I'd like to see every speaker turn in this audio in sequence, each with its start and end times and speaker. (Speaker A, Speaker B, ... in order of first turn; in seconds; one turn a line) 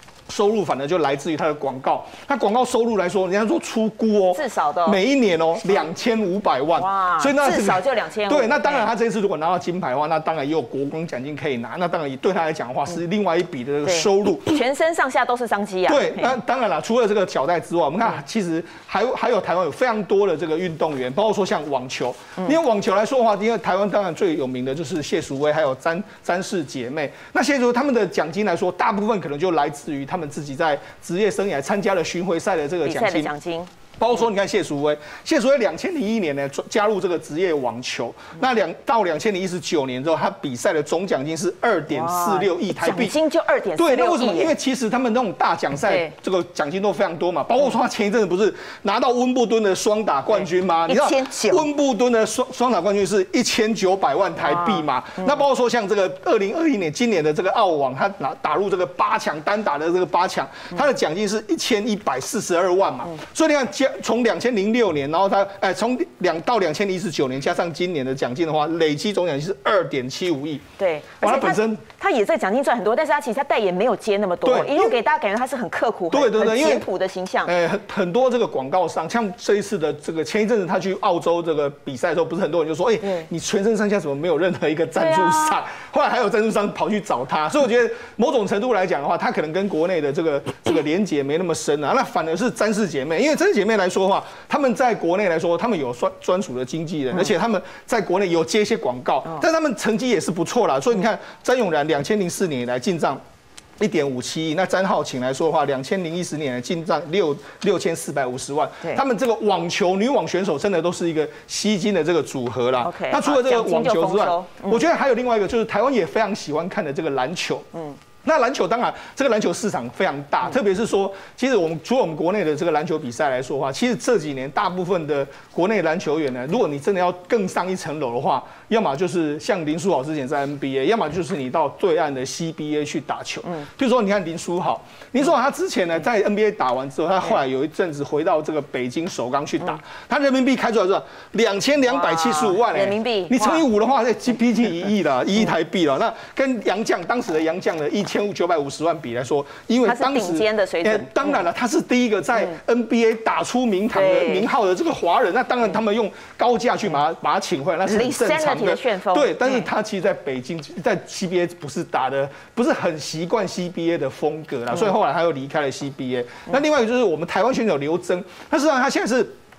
Speaker A: 0.3-14.6
Speaker B: 4.3-5.0
Speaker B: 6.7-8.9
Speaker B: 13.8-16.4
Speaker A: 15.8-33.3
Speaker B: 32.8-33.7
Speaker A: 34.0-43.1
Speaker B: 41.9-44.5
Speaker A: 43.8-70.6
Speaker B: 50.9-51.7
Speaker B: 54.4-54.9
Speaker B: 70.8-77.5
Speaker A: 71.2-71.8
Speaker A: 74.4-75.0
Speaker A: 76.1-76.9
Speaker A: 77.4-103.2
Speaker B: 85.0-85.6
Speaker A: 103.8-117.7
Speaker B: 112.8-114.8
Speaker A: 118.2-169.3
Speaker B: 141.9-143.6
Speaker B: 149.8-151.2
Speaker B: 153.9-154.5
Speaker B: 157.8-159.7